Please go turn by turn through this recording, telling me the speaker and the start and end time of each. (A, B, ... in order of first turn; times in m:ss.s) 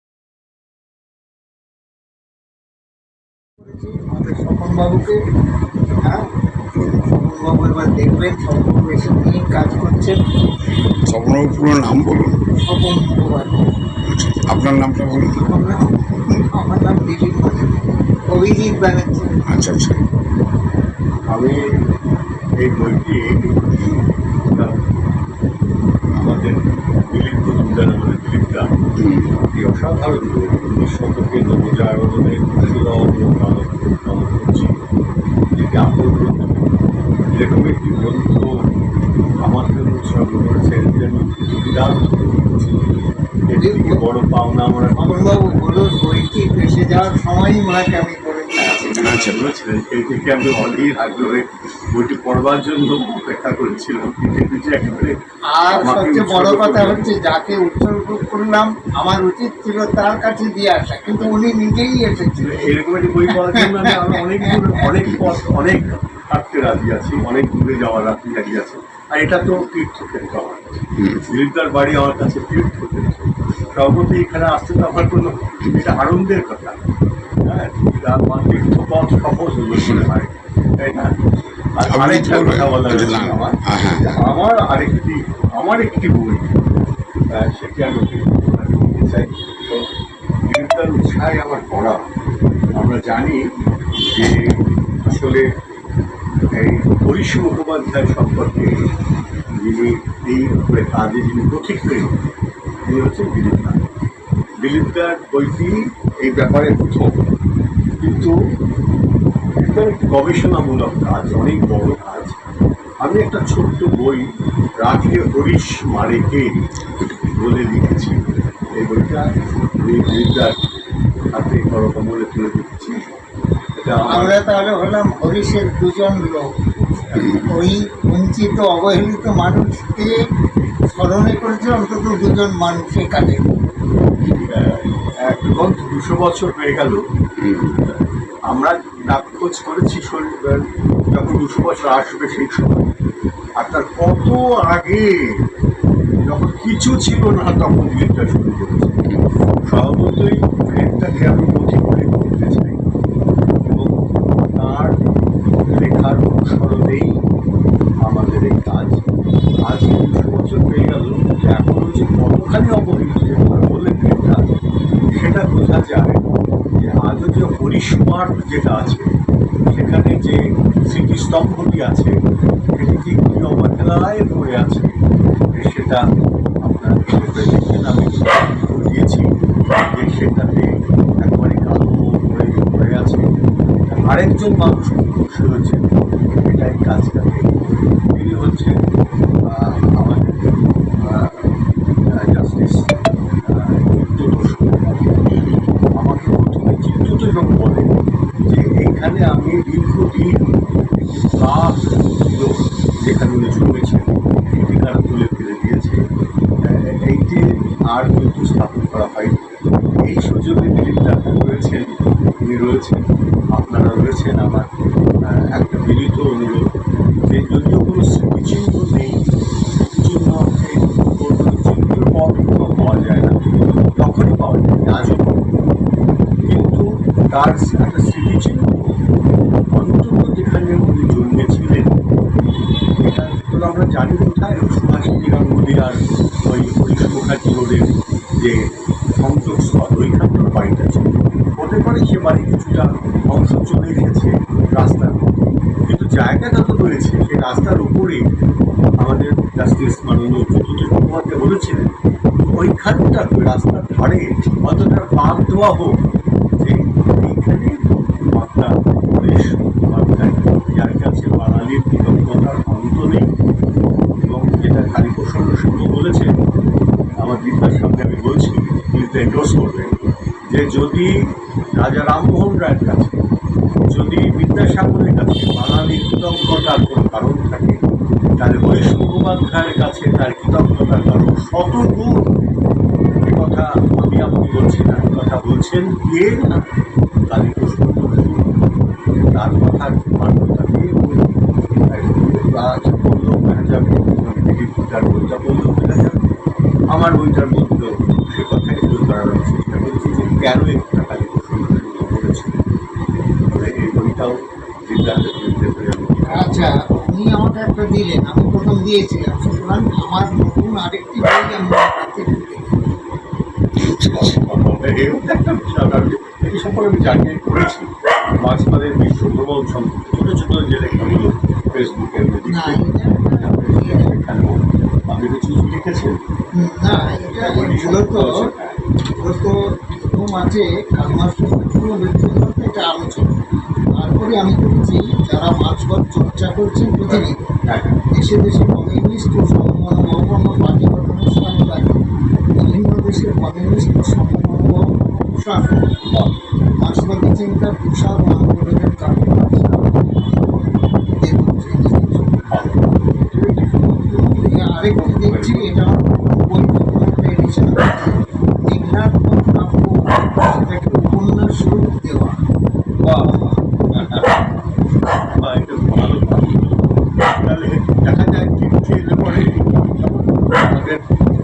0:03.6-0:05.2 A
0:07.0-0:10.2 A
0:11.1-0:12.4 B
0:12.6-0:13.7 A
0:14.1-0:15.4 B
0:15.4-0:19.3 A
0:19.5-0:20.0 B
0:21.3-0:21.6 C
0:22.6-0:23.8 C
0:26.2-0:28.7 C
0:29.0-0:29.3 B
0:29.5-0:34.8 C
0:35.6-0:36.7 C
0:37.3-0:38.6 C
0:39.4-0:42.7 C
0:43.5-0:45.7 C
0:43.6-0:44.0 A
0:45.0-0:49.1 A
0:48.8-0:55.2 C
0:48.9-0:49.5 B
0:55.5-1:02.6 A
0:55.7-0:57.1 C
1:02.4-1:16.8 C
1:03.3-1:04.7 A
1:17.4-1:21.2 C
1:21.8-1:26.5 C
1:21.8-1:24.1 B
1:27.3-1:29.8 C
1:30.4-1:32.0 C
1:32.7-1:35.5 C
1:36.5-1:38.8 C
1:39.6-1:42.1 C
1:42.8-1:43.8 C
1:44.6-1:47.2 C
1:48.0-1:48.4 C
1:49.6-1:52.4 C
1:53.0-1:54.3 C
1:54.8-1:56.6 C
1:57.1-1:58.2 C
1:58.8-1:59.2 C
1:59.8-2:00.6 C
2:01.3-2:03.2 C
2:03.8-2:04.4 C
2:04.1-2:06.4 A
2:07.1-2:07.5 C
2:07.4-2:10.1 A
2:10.9-2:13.4 A
2:14.2-2:17.0 C
2:17.4-2:17.8 B
2:17.8-2:22.9 C
2:23.6-2:25.4 C
2:26.2-2:29.0 C
2:29.6-2:32.8 C
2:33.6-2:33.9 C
2:34.5-2:35.0 C
2:35.7-2:37.2 C
2:38.0-2:39.0 C
2:39.7-2:44.4 C
2:45.2-2:49.1 C
2:49.7-2:52.2 C
2:52.7-2:55.0 C
2:55.5-2:56.0 C
2:56.6-3:03.3 C
3:03.9-3:07.5 C
3:08.1-3:08.7 C
3:09.5-3:10.4 C
3:11.0-3:11.4 C
3:12.2-3:12.9 C
3:13.4-3:17.9 C
3:18.4-3:20.4 C
3:21.0-3:26.0 C
3:26.6-3:29.4 C
3:30.1-3:34.7 C
3:35.2-3:36.6 C
3:37.3-3:39.2 C
3:39.7-3:43.4 C
3:44.0-3:45.5 C
3:46.4-3:49.0 C
3:49.7-3:52.0 C
3:53.0-4:05.3 C
4:05.9-4:08.2 C
4:09.0-4:16.0 C
4:16.6-4:23.3 C
4:24.2-4:26.4 C
4:27.2-4:29.9 C
4:30.5-4:31.1 C
4:31.8-4:33.2 C
4:33.9-4:37.8 C
4:38.4-4:42.3 C
4:43.3-4:46.6 C
4:47.3-4:48.5 C
4:49.3-4:51.2 C
4:51.9-4:56.2 C
4:56.9-5:02.6 C
5:03.5-5:06.7 C
5:06.2-5:12.6 A
5:13.8-5:14.4 B
5:13.9-5:26.2 C
5:22.4-5:24.1 A
5:26.6-5:28.5 A
5:26.9-5:28.8 C
5:29.2-5:33.4 A
5:34.0-5:37.4 A
5:37.1-5:38.0 C
5:38.1-5:42.0 A
5:42.6-5:46.0 A
5:46.8-5:52.5 A
5:52.4-5:52.8 C
5:53.3-5:53.8 C
5:53.7-6:02.4 A
5:54.9-5:55.8 C
6:03.9-6:04.6 C
6:05.2-6:11.0 C